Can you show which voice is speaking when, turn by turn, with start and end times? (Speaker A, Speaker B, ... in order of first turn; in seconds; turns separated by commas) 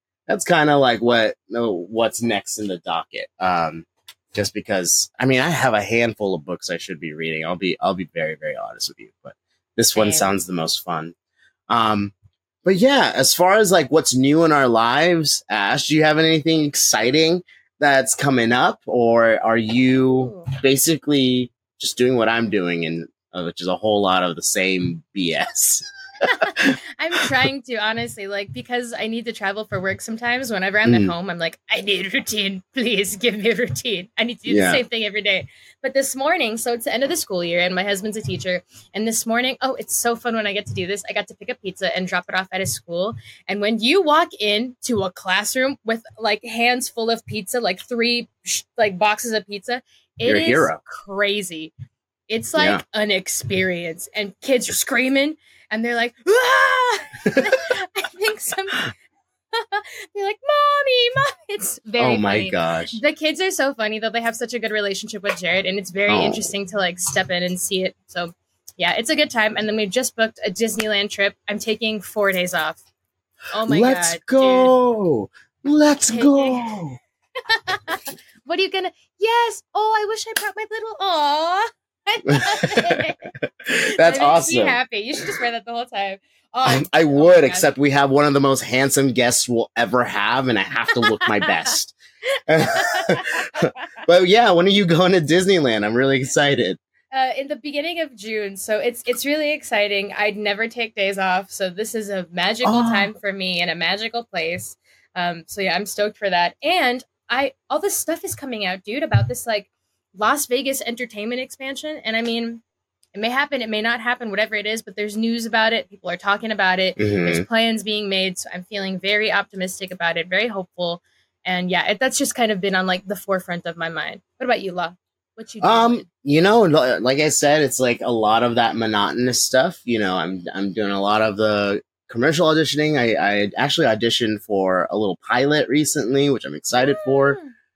Speaker A: 0.3-11.1, Speaker B: 9.9-10.3, Speaker A: 11.7-12.1, Speaker A: 12.6-26.8, Speaker B: 20.2-20.5, Speaker B: 26.4-51.7, Speaker A: 30.8-31.1, Speaker A: 34.5-34.8, Speaker A: 50.2-50.8, Speaker B: 52.3-58.8, Speaker A: 52.6-52.8, Speaker B: 59.5-72.8, Speaker A: 62.0-63.0, Speaker A: 66.1-66.5, Speaker B: 73.5-74.7, Speaker A: 73.7-77.0, Speaker B: 76.1-76.7, Speaker B: 77.5-87.7, Speaker A: 82.3-84.8, Speaker A: 86.6-91.9, Speaker B: 91.0-91.7, Speaker A: 92.5-96.8, Speaker B: 92.7-93.7, Speaker B: 97.1-112.6, Speaker A: 102.6-103.1, Speaker B: 113.1-126.0, Speaker A: 117.0-117.5, Speaker A: 125.6-137.4, Speaker B: 136.8-137.4